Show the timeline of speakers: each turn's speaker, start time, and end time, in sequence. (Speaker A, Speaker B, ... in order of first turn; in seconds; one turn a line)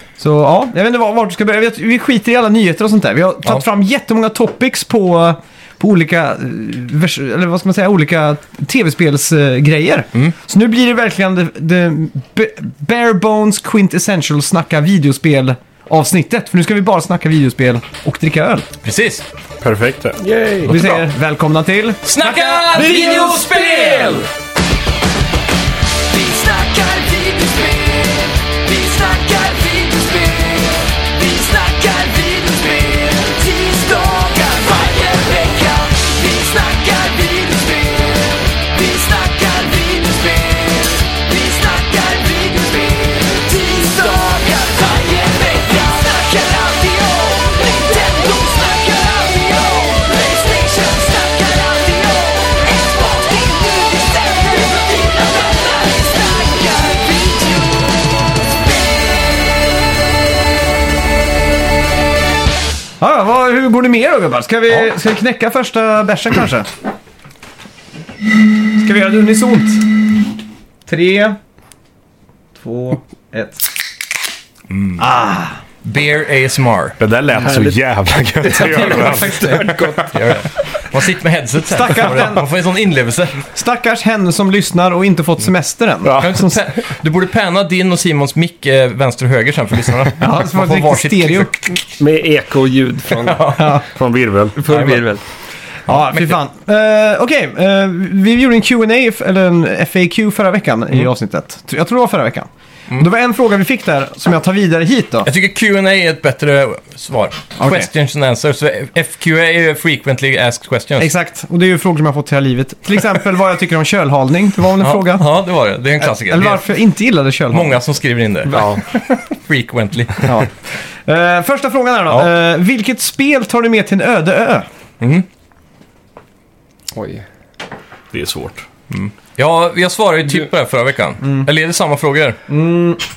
Speaker A: 0.2-18.7
Speaker B: 18.8-19.2
Speaker C: 19.6-21.0
Speaker D: 20.2-20.8
Speaker A: 20.7-23.3
Speaker B: 22.1-24.3
Speaker D: 22.7-24.3
Speaker E: 26.1-57.9
Speaker E: 58.7-58.9
Speaker A: 63.0-66.7
Speaker A: 68.7-69.9
Speaker A: 70.9-71.4
Speaker A: 72.5-73.7
Speaker B: 74.7-75.0
Speaker A: 75.0-75.6
Speaker B: 75.8-77.0
Speaker C: 77.0-80.1
Speaker D: 77.4-77.8
Speaker D: 78.4-80.4
Speaker A: 78.6-79.5
Speaker B: 80.1-83.4
Speaker A: 81.7-82.4
Speaker A: 83.5-86.5
Speaker C: 86.0-86.3
Speaker B: 86.2-91.6
Speaker A: 90.2-91.5
Speaker D: 92.0-93.6
Speaker B: 93.2-93.8
Speaker A: 93.6-93.8
Speaker C: 93.9-94.5
Speaker D: 94.5-95.2
Speaker B: 94.7-95.0
Speaker A: 95.9-105.3
Speaker B: 105.2-111.1
Speaker A: 107.6-107.9
Speaker A: 111.0-115.3
Speaker B: 114.8-116.7
Speaker A: 116.0-117.8
Speaker B: 117.5-120.3
Speaker C: 118.5-118.8
Speaker A: 120.2-120.5
Speaker A: 121.0-124.7
Speaker D: 126.9-127.2
Speaker C: 128.1-128.6
Speaker B: 128.9-132.4
Speaker A: 131.2-131.5
Speaker A: 132.5-133.0